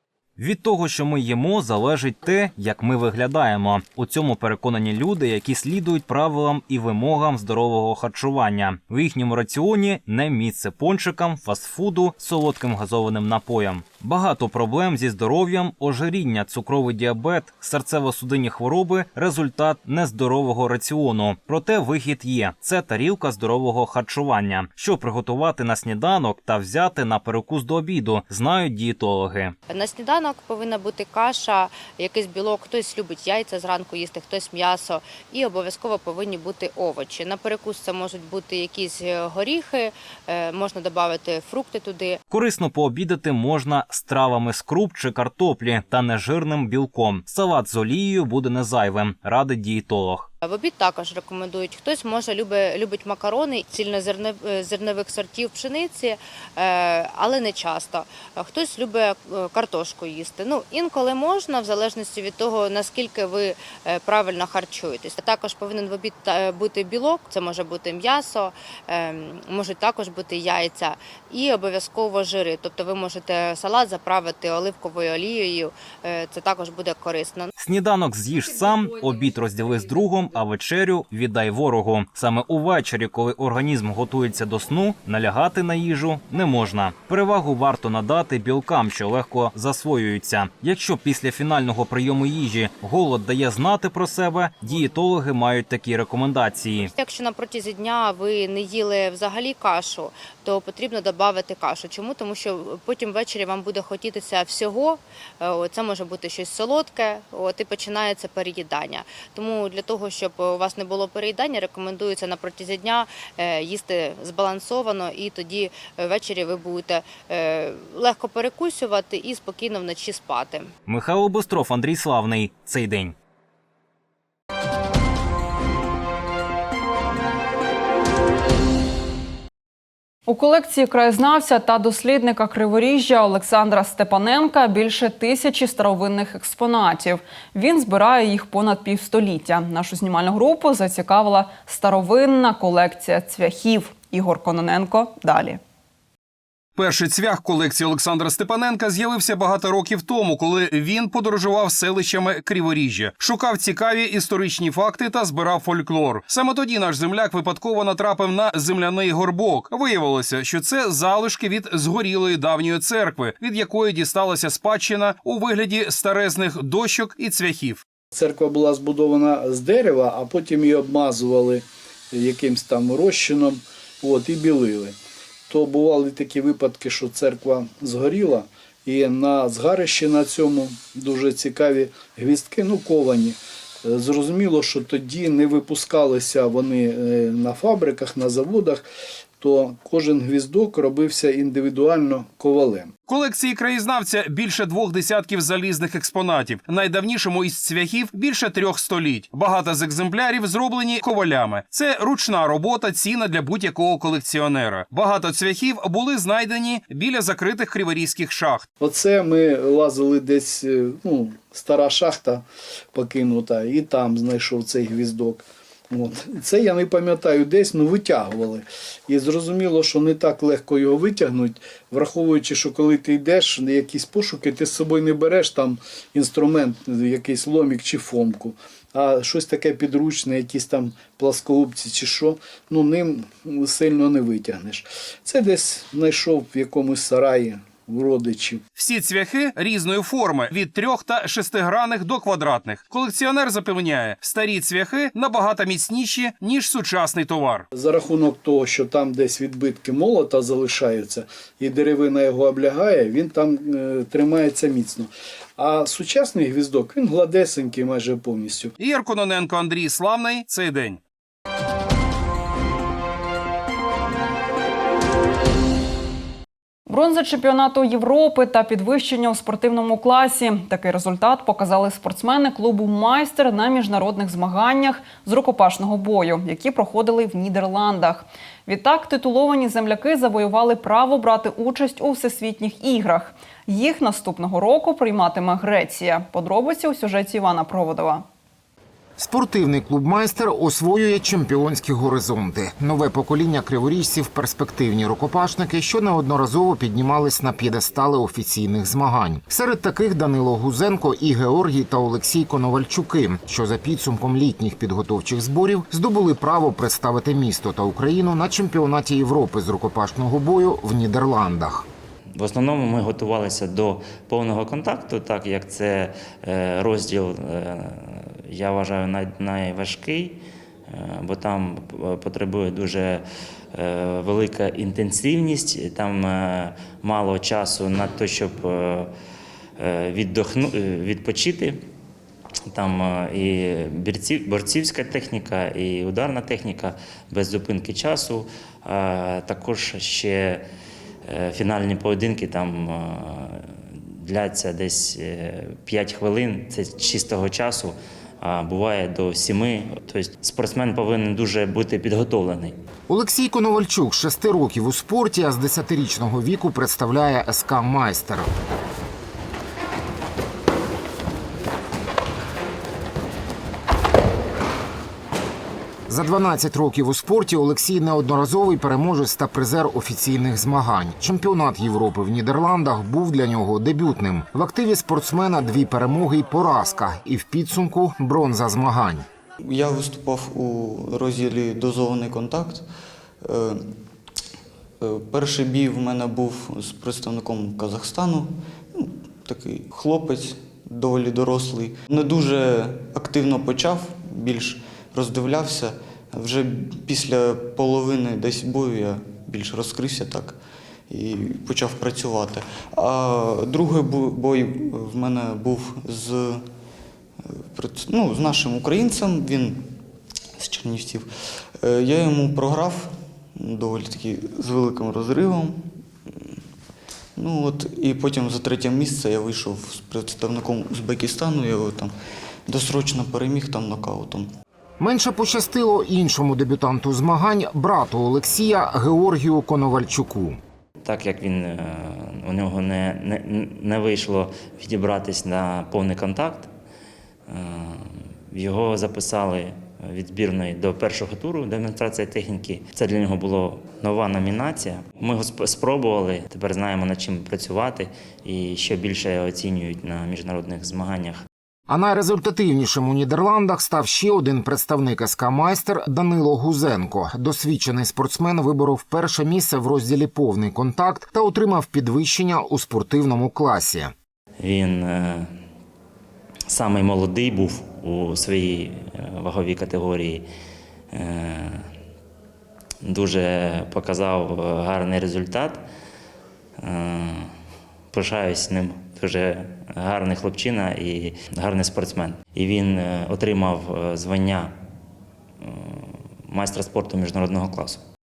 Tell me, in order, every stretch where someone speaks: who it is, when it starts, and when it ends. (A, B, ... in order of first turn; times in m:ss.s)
0:00.4-0:29.5 A
0:29.7-0:42.2 B
0:42.3-0:50.3 A
0:50.4-1:17.5 B
1:17.6-1:36.9 A
1:37.0-2:00.7 B
2:00.8-2:03.1 A
2:10.3-2:25.6 C
2:26.8-2:47.8 D
2:48.1-2:55.0 E
2:55.5-3:08.8 E
3:09.4-3:12.9 E
3:13.1-3:28.7 D
3:28.8-3:58.6 E
3:58.8-4:07.6 D
4:07.7-4:18.7 E
4:18.8-4:21.0 D
4:26.9-4:48.2 C
4:49.2-5:11.9 F
5:12.4-5:29.1 G
5:29.8-5:31.8 G
5:32.7-5:40.6 G
5:41.3-5:52.8 G
5:53.1-5:58.5 F
6:06.1-6:19.2 F
6:19.6-6:22.8 H
6:23.4-6:23.9 H
6:25.0-6:40.6 H
6:41.1-6:46.6 H
6:47.4-6:50.0 H
6:50.6-6:56.6 H
6:57.4-7:02.1 H
7:02.6-7:04.5 H
7:05.0-7:10.6 F
7:11.0-7:16.7 G
7:17.5-7:31.4 G
7:31.9-7:44.1 F
7:44.6-7:45.5 G
7:46.7-7:50.4 G
7:51.1-7:51.9 G
7:53.0-7:55.8 G
7:56.8-7:57.5 G
7:58.1-8:04.8 G
8:05.6-8:08.0 G